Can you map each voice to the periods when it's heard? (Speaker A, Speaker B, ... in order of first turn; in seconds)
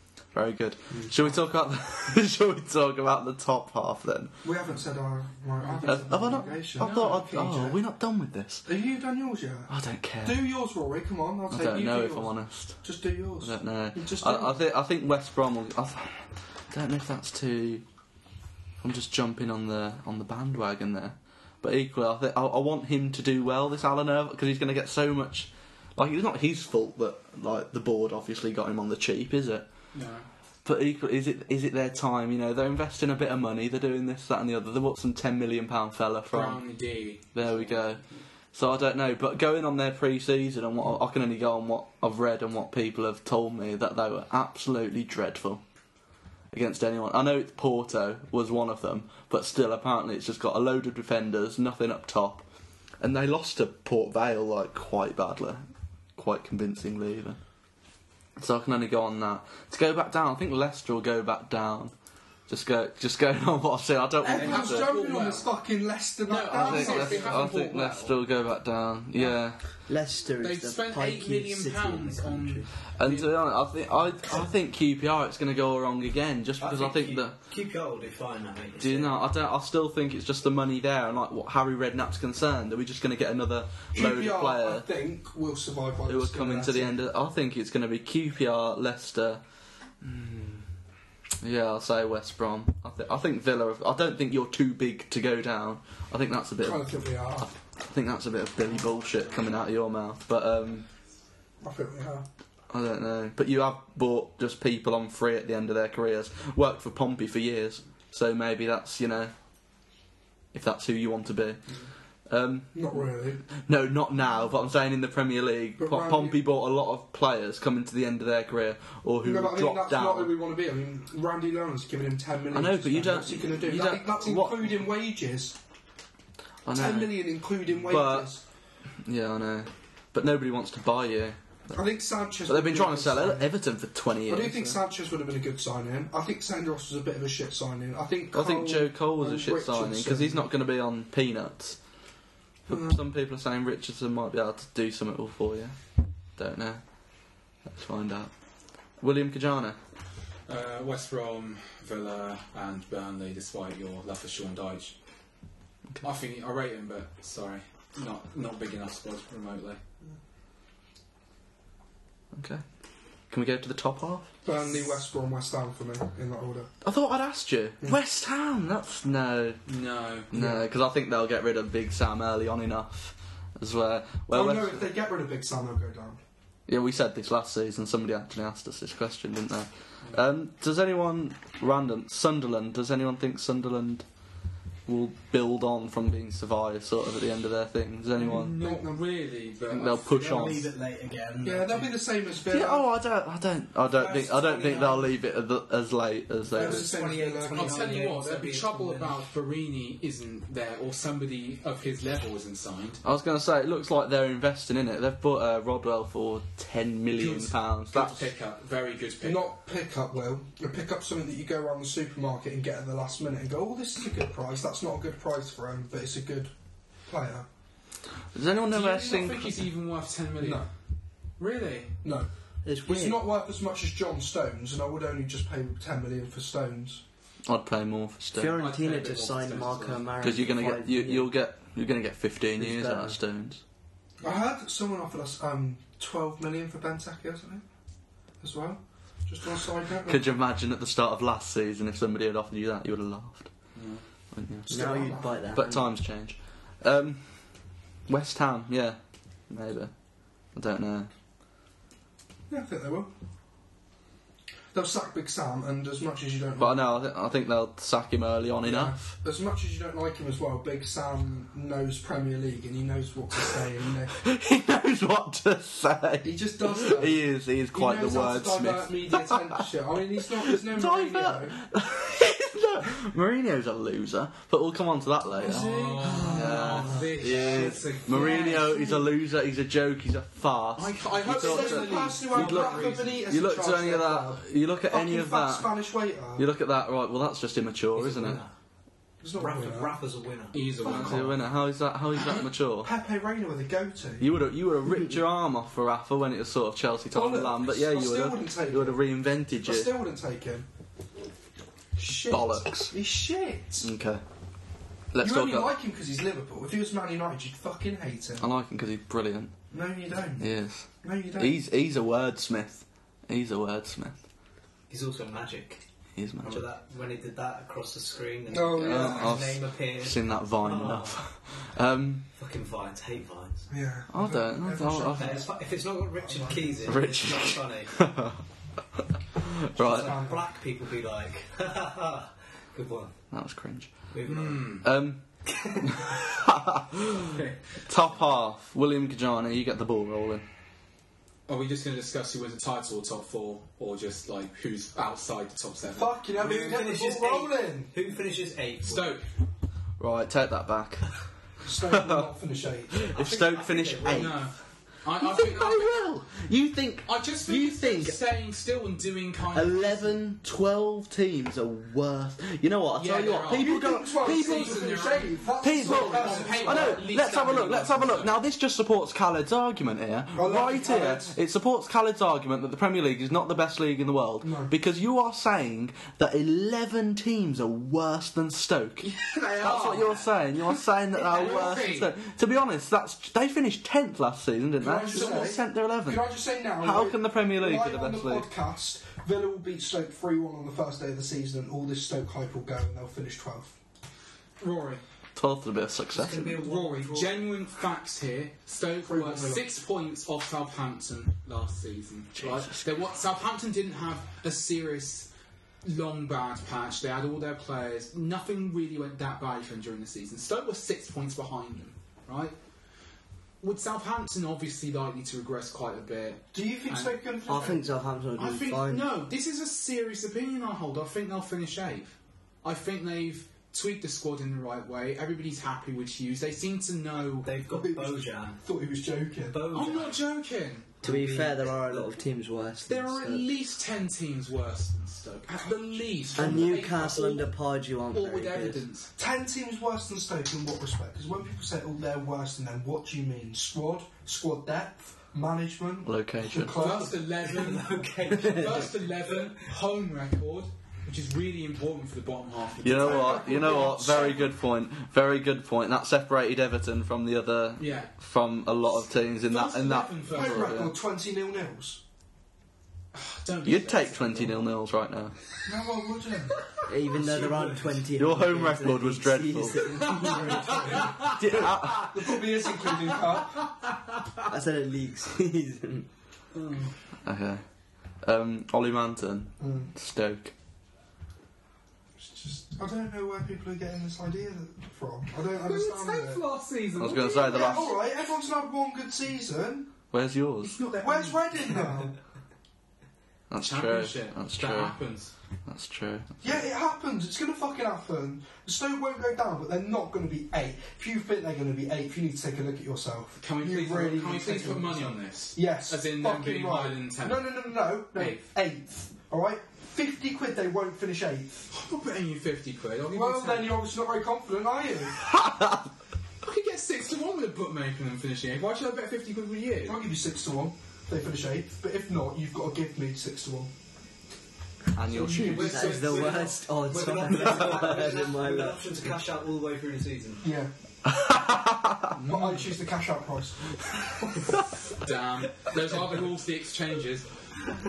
Speaker A: 0.3-4.3, 5.8-8.7, 9.7-10.4, 11.5-12.8, 13.4-17.8, 18.8-29.7, 30.6-36.7, 37.3-45.6, 46.5-52.5, 53.0-55.6, 56.2-57.4, 58.4-61.9, 62.5-64.9, 66.5-69.6, 73.0-77.3, 78.8-84.9, 86.1-89.4, 90.0-90.6, 91.4-100.9, 102.7-109.3, 110.5-111.6, 112.3-113.1, 113.7-120.3, 122.5-124.8, 126.7-128.3, 129.0-131.4, 132.4-134.8, 138.3-141.8, 142.7-145.8, 146.4-146.8, 147.7-148.3, 149.0-149.8, 162.3-162.6, 163.3-164.3, 166.8-169.6, 170.3-174.9, 176.7-184.1, 184.9-188.6, 189.7-190.7, 192.5-196.9, 203.0-208.3, 218.3-219.7, 227.5-228.6, 230.2-233.6, 240.1-243.5, 244.3-247.6, 248.1-249.9, 250.5-251.1, 256.6-259.1, 264.2-269.7, 270.5-285.8, 286.4-288.4, 290.8-292.9, 294.2-299.9, 302.3-302.9, 303.8-304.2, 305.1-305.7, 308.4-309.5, 310.4-314.2, 316.2-316.7, 318.8-322.3, 324.1-325.4, 326.9-328.4, 329.0-330.2, 333.3-333.9, 334.8-335.2, 335.9-337.4, 337.9-340.4, 350.0-351.1, 351.9-352.3, 353.0-354.5, 355.2-358.2, 359.5-364.8, 365.6-388.5, 395.4-396.6, 402.4-402.9, 446.1-446.8, 452.8-460.9, 463.6-465.3, 468.2-470.0, 471.3-472.1, 477.2-477.6, 478.2-480.5, 487.0-487.9, 490.1-490.8, 493.5-495.0, 495.7-496.6, 515.2-515.9, 525.0-525.9, 531.1-532.1
Speaker B: 4.4-7.8, 8.7-9.7, 10.2-14.6, 64.2-67.5, 83.9-87.0, 96.6-97.5, 101.6-102.3, 112.7-113.4, 115.8-116.4, 119.2-125.6, 126.7-128.4, 131.7-133.5, 134.3-140.5, 142.7-143.0, 164.4-166.7, 170.3-170.6, 174.3-176.2, 188.2-189.0, 191.4-192.9, 196.5-197.9, 209.2-216.5, 217.1-217.5, 220.4-220.7, 222.0-222.3, 222.8-227.0, 234.2-237.6, 238.4-240.3, 244.7-245.5, 252.5-253.1, 254.7-257.0, 258.6-264.2, 266.2-271.6, 275.5-276.0, 281.3-286.5, 289.2-290.0, 290.8-291.4, 292.8-294.3, 297.1-299.0, 299.6-300.7, 302.0-303.9, 305.2-308.5, 309.7-311.6, 318.5-319.4, 323.7-325.6, 326.2-326.9, 329.8-330.4, 345.9-347.9, 351.6-353.1, 363.5-367.1, 370.4-371.4, 374.4-374.7, 384.8-393.8, 399.1-399.7, 416.5-417.9, 427.7-429.6, 436.4-436.6, 439.2-447.2, 452.9-454.5, 460.3-462.0, 465.7-466.6, 470.2-471.3, 471.9-473.6, 479.6-479.9, 482.2-486.4, 487.4-489.9, 491.0-492.2, 496.4-511.7, 513.1-515.2, 519.9-523.7, 525.1-525.8, 530.4-530.7, 532.2-533.8
Speaker C: 5.6-7.2, 29.9-30.3, 36.3-37.9, 64.3-65.5, 66.3-68.2, 69.2-69.8, 70.4-73.4, 150.5-154.9, 156.0-159.8, 169.7-170.3, 188.2-190.0, 197.5-203.0, 207.1-209.5, 218.7-220.7, 221.4-222.0, 228.6-230.2, 243.8-244.0, 275.4-279.0, 280.8-283.2, 290.5-291.4, 334.2-334.9, 341.5-346.2, 348.8-349.3, 354.1-356.1, 357.1-360.2, 363.0-368.3, 379.3-382.1, 385.1-385.6, 394.6-395.0, 396.6-405.3, 405.8-412.6, 413.6-417.2, 418.4-427.5, 429.7-430.9, 432.9-437.5, 438.1-439.1, 446.7-453.6, 457.8-458.1, 459.4-460.8, 463.1-464.6, 470.0-471.8, 472.8-473.4, 476.5-476.9, 485.6-487.9, 490.6-491.6, 493.6-495.3, 503.4-508.4, 511.7-513.8, 516.4-520.0, 525.1-526.6, 532.2-532.8, 534.9-537.3
Speaker D: 69.9-72.7, 222.7-223.2, 228.3-231.3, 232.6-233.2, 244.7-245.9, 276.0-277.1, 417.5-419.1, 431.0-433.5, 436.4-438.9, 466.9-471.1, 474.5-476.1, 525.5-528.9
Speaker E: 76.6-79.2, 189.9-191.9, 194.0-195.1, 196.5-199.2, 287.9-288.5, 289.4-291.0, 314.9-315.8, 316.4-321.3, 322.3-323.7, 325.1-328.1, 329.8-333.1, 334.1-334.8, 335.4-336.3, 346.3-349.2, 353.1-354.4, 396.1-397.5, 427.4-428.6, 429.5-430.2, 431.0-432.2, 447.4-449.7, 467.1-468.0, 470.3-471.1, 526.0-530.5